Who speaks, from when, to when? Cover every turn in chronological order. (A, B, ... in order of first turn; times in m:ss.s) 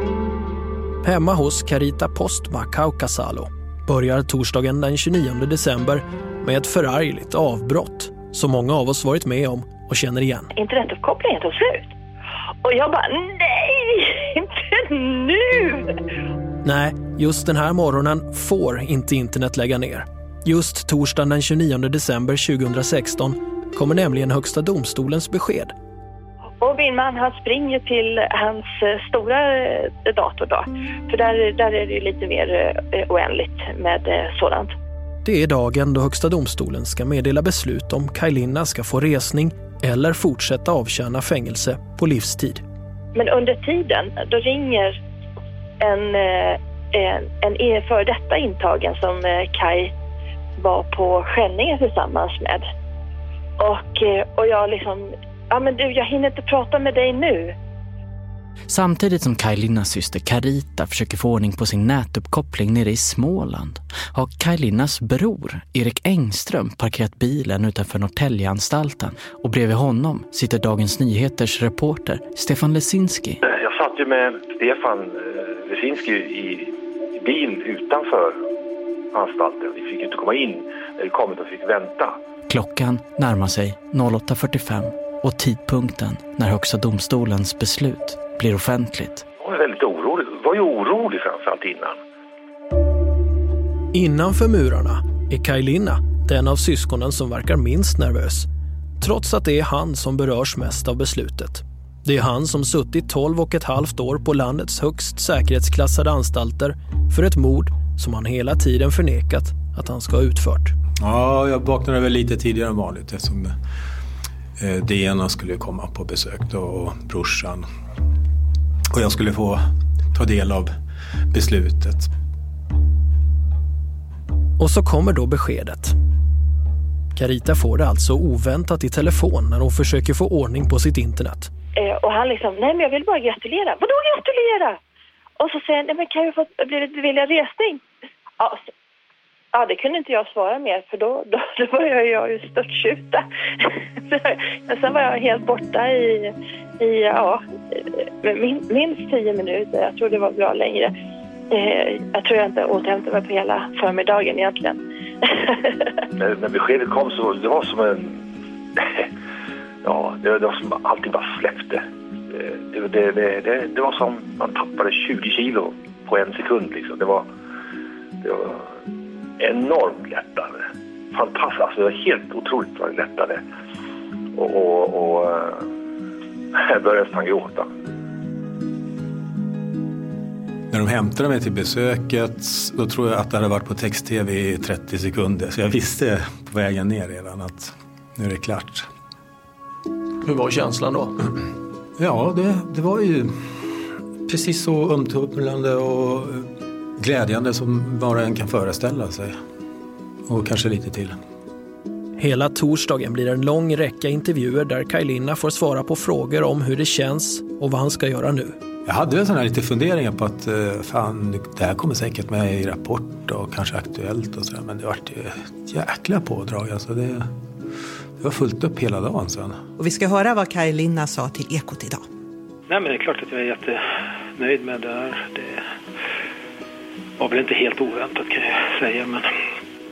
0:01.0-0:10.5 A
0:10.5-0:11.9 B
0:12.6-0:15.9 B
0:16.6-0:25.7 A
0:26.6-0:34.7 B
0:35.2-0:42.6 A
0:43.1-0:45.0 B
0:45.8-0:49.9 B
0:50.6-0:52.6 B
0:53.6-0:57.5 B
0:58.7-1:13.4 C
1:13.4-1:18.4 D
1:19.1-1:22.2 D
1:22.5-1:29.2 C
1:29.4-1:32.0 D
1:33.9-1:38.5 A
1:39.0-1:50.7 A
1:51.0-1:53.5 E
1:54.6-1:57.7 E
1:58.9-1:59.6 E
2:00.1-2:00.7 E
2:01.3-2:02.1 E
2:04.6-2:06.0 A
2:07.2-2:11.5 A
2:11.8-2:14.8 B
2:15.4-2:17.8 B
2:18.4-2:18.6 B
2:19.5-2:27.4 B
2:28.2-2:30.9 B
2:31.5-2:35.7 B
2:36.2-2:38.2 D
2:38.8-2:39.1 D
2:39.8-2:47.3 D
2:48.2-2:48.8 D
2:49.4-2:53.4 D
2:54.3-2:55.7 D
2:56.5-2:57.7 D
3:00.7-3:08.9 E
3:10.2-3:11.2 A
3:12.0-3:19.4 E
3:20.2-3:21.2 E
3:22.2-3:28.6 A
3:28.8-3:37.3 E
3:38.2-3:39.6 E
3:39.8-3:42.0 F
3:42.7-3:43.8 G
3:44.4-3:45.6 G
3:47.2-3:49.3 G